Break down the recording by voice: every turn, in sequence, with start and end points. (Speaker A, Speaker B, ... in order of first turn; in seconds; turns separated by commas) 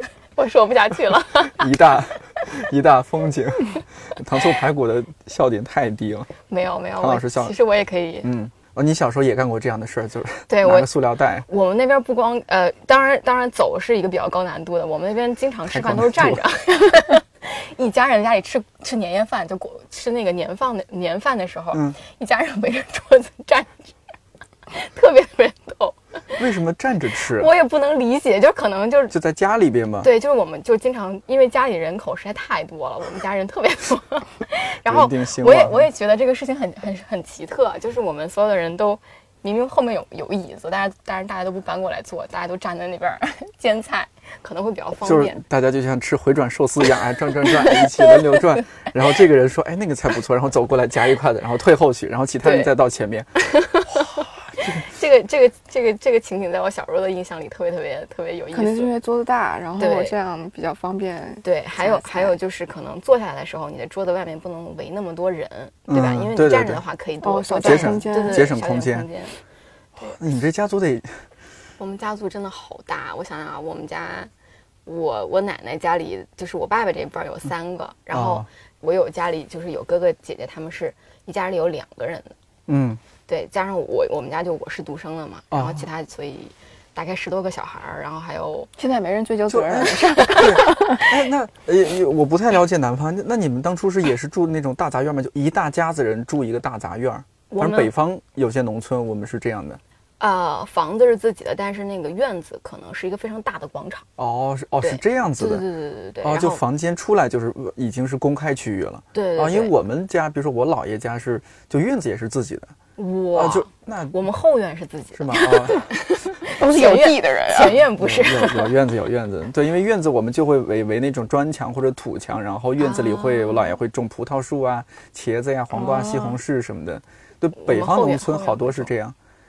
Speaker A: 0.3-1.7, Speaker B: 1.6-6.3, Speaker A: 6.5-8.3, Speaker B: 7.0-7.5, Speaker B: 8.2-11.4, Speaker A: 10.5-10.9, Speaker A: 11.4-23.9, Speaker B: 15.7-16.4, Speaker B: 21.7-22.0, Speaker A: 24.7-26.0, Speaker B: 26.4-27.5, Speaker A: 27.3-29.1, Speaker B: 29.1-30.1, Speaker A: 30.0-45.4, Speaker B: 34.9-35.9, Speaker B: 45.0-53.3, Speaker A: 47.4-48.6, Speaker A: 52.4-52.7, Speaker A: 53.4-58.9, Speaker B: 54.5-54.8, Speaker C: 58.5-62.4, Speaker A: 59.8-60.1, Speaker A: 61.4-69.4, Speaker B: 65.9-66.8, Speaker C: 67.2-68.5, Speaker B: 67.6-69.1, Speaker B: 70.0-71.2, Speaker A: 71.8-74.3, Speaker A: 74.8-82.3, Speaker B: 78.1-78.5, Speaker B: 82.7-83.0, Speaker A: 83.3-88.7, Speaker B: 85.5-85.8, Speaker C: 88.8-91.0, Speaker B: 89.5-99.8, Speaker A: 90.2-91.1, Speaker A: 97.5-97.9, Speaker A: 100.2-104.0, Speaker B: 104.2-105.6, Speaker A: 104.8-106.6, Speaker B: 106.2-112.7, Speaker A: 109.1-109.7, Speaker A: 113.0-118.7, Speaker B: 113.3-114.2, Speaker B: 115.1-115.9, Speaker C: 116.5-117.8, Speaker B: 117.7-129.2, Speaker A: 122.8-123.7, Speaker C: 125.7-126.4, Speaker A: 127.6-128.9